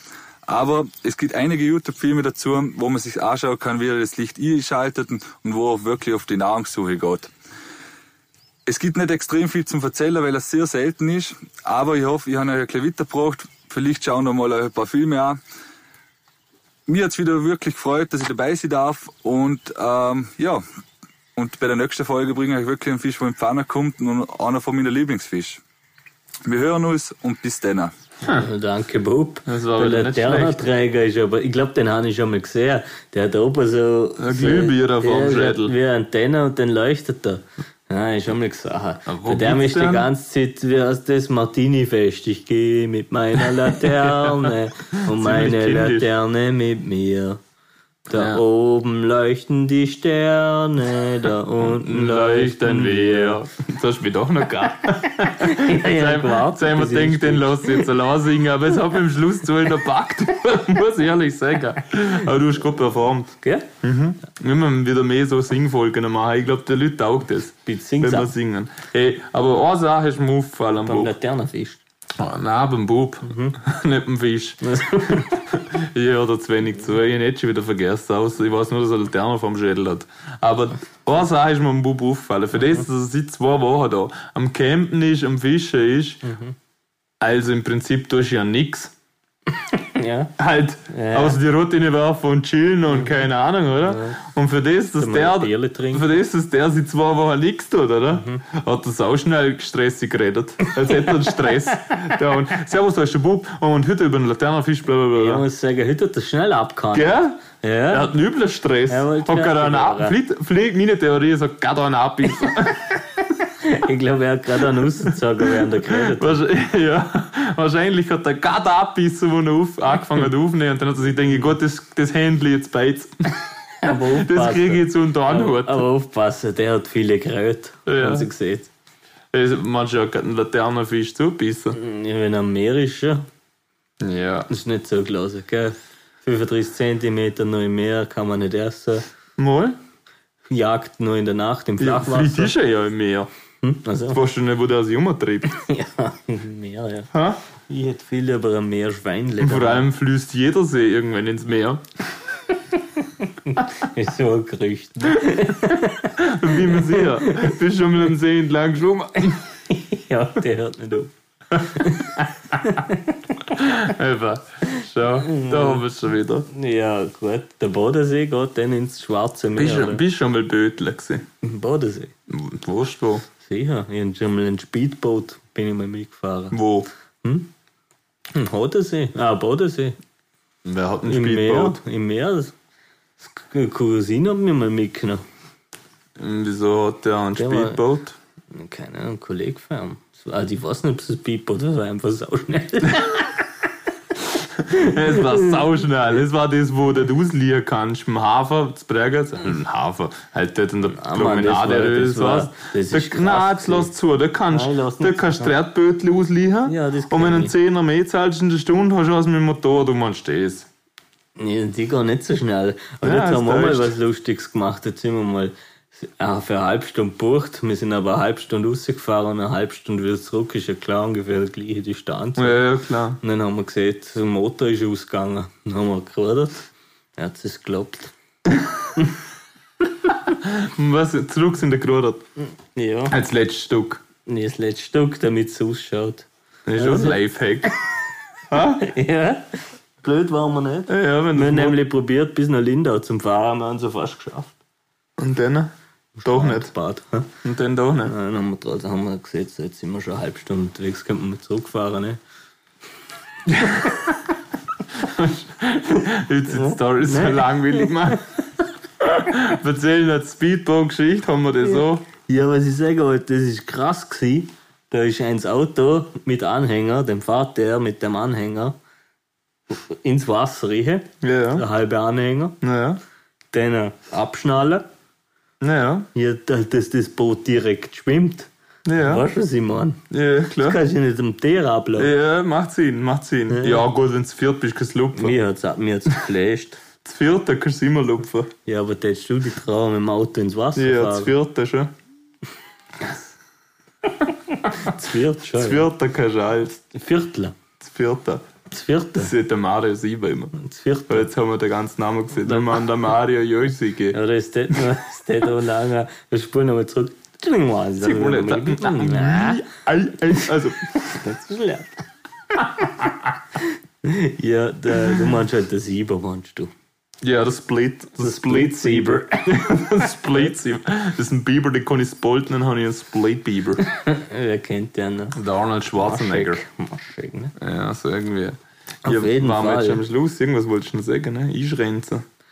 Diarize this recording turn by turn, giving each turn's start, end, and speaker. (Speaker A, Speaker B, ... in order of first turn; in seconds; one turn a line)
Speaker A: 0.5-7.3
Speaker A: 8.7-15.4
Speaker A: 16.9-20.6
Speaker A: 21.4-25.6
Speaker A: 26.4-27.9
Speaker B: 28.3-47.4
Speaker C: 29.4-30.7
Speaker C: 34.2-35.7
Speaker C: 39.1-40.1
Speaker C: 43.7-44.5
Speaker C: 45.1-46.1
Speaker B: 48.1-53.4
Speaker C: 48.1-48.4
Speaker C: 51.6-71.1
Speaker B: 55.4-57.9
Speaker B: 63.4-63.7
Speaker B: 67.7-68.3
Speaker B: 70.8-71.8
Speaker C: 72.2-86.2
Speaker B: 73.2-73.5
Speaker B: 74.6-75.4
Speaker B: 86.2-86.5
Speaker C: 87.2-88.9
Speaker B: 89.6-90.3
Speaker C: 90.4-105.4
Speaker B: 90.9-91.4
Speaker B: 93.8-94.2
Speaker B: 95.0-96.1
Speaker B: 98.2-98.4
Speaker B: 105.2-108.1
Speaker C: 106.9-107.4
Speaker C: 107.9-113.0
Speaker B: 108.9-110.2
Speaker B: 113.6-116.4
Speaker C: 115.5-125.8
Speaker B: 123.8-128.7
Speaker C: 127.8-128.3
Speaker C: 129.3-131.8
Speaker B: 131.7-133.2
Speaker C: 134.0-134.5
Speaker B: 134.5-139.1
Speaker C: 139.4-139.8
Speaker B: 140.5-142.5
Speaker C: 141.8-143.3
Speaker B: 143.6-144.2
Speaker C: 144.1-145.5
Speaker B: 145.5-147.1
Speaker C: 147.1-147.4
Speaker B: 147.7-149.8
Speaker C: 149.4-151.8
Speaker B: 153.2-157.6
Speaker C: 155.3-159.4
Speaker B: 159.7-163.4
Speaker C: 161.7-162.3
Speaker C: 163.5-166.5
Speaker B: 165.2-165.8
Speaker B: 166.5-170.0
Speaker C: 169.6-171.2
Speaker B: 171.4-172.1
Speaker C: 172.3-173.3
Speaker B: 173.4-176.6
Speaker C: 176.5-176.9
Speaker B: 177.2-177.5
Speaker B: 178.3-180.0
Speaker C: 180.6-181.8
Speaker B: 181.1-182.5
Speaker B: 183.2-185.2
Speaker C: 186.2-188.2
Speaker B: 187.4-187.8
Speaker B: 188.5-193.4
Speaker C: 194.6-210.7
Speaker B: 194.7-195.4
Speaker B: 200.9-203.9
Speaker B: 204.5-205.5
Speaker B: 206.7-207.5
Speaker B: 211.4-222.6
Speaker C: 213.0-213.9
Speaker C: 222.4-223.2
Speaker B: 223.2-228.1
Speaker C: 230.3-232.2
Speaker B: 232.7-233.2
Speaker C: 233.1-234.0
Speaker B: 234.2-237.7
Speaker C: 236.7-237.7
Speaker C: 238.5-238.9
Speaker B: 238.8-244.6
Speaker C: 240.9-241.8
Speaker C: 245.2-245.7
Speaker B: 246.2-247.3
Speaker C: 246.2-246.7
Speaker C: 247.4-248.1
Speaker B: 248.0-252.2
Speaker C: 253.5-254.1
Speaker C: 254.9-258.2
Speaker B: 256.5-258.1
Speaker C: 259.0-262.0
Speaker B: 261.6-268.8
Speaker B: 269.7-272.6
Speaker C: 271.2-271.6
Speaker C: 272.6-273.0
Speaker B: 273.5-274.9
Speaker C: 275.6-276.1
Speaker B: 276.1-280.0
Speaker C: 278.9-279.2
Speaker C: 280.1-280.8
Speaker B: 280.5-282.1
Speaker C: 282.0-285.4
Speaker B: 283.5-283.8
Speaker B: 285.1-286.8
Speaker C: 287.0-288.5
Speaker B: 288.6-291.3
Speaker C: 290.8-291.9
Speaker B: 294.6-295.9
Speaker C: 295.5-296.8
Speaker B: 296.9-297.6
Speaker C: 297.8-298.4
Speaker B: 298.7-299.3
Speaker C: 299.2-300.5
Speaker B: 300.5-301.3
Speaker C: 301.1-304.2
Speaker B: 304.1-309.6
Speaker C: 308.0-311.1
Speaker B: 311.1-312.0
Speaker B: 314.0-316.7
Speaker C: 317.2-323.8
Speaker B: 318.2-319.5
Speaker B: 323.9-325.4
Speaker C: 325.3-326.6
Speaker B: 326.0-327.5
Speaker C: 327.6-332.2
Speaker B: 329.0-330.0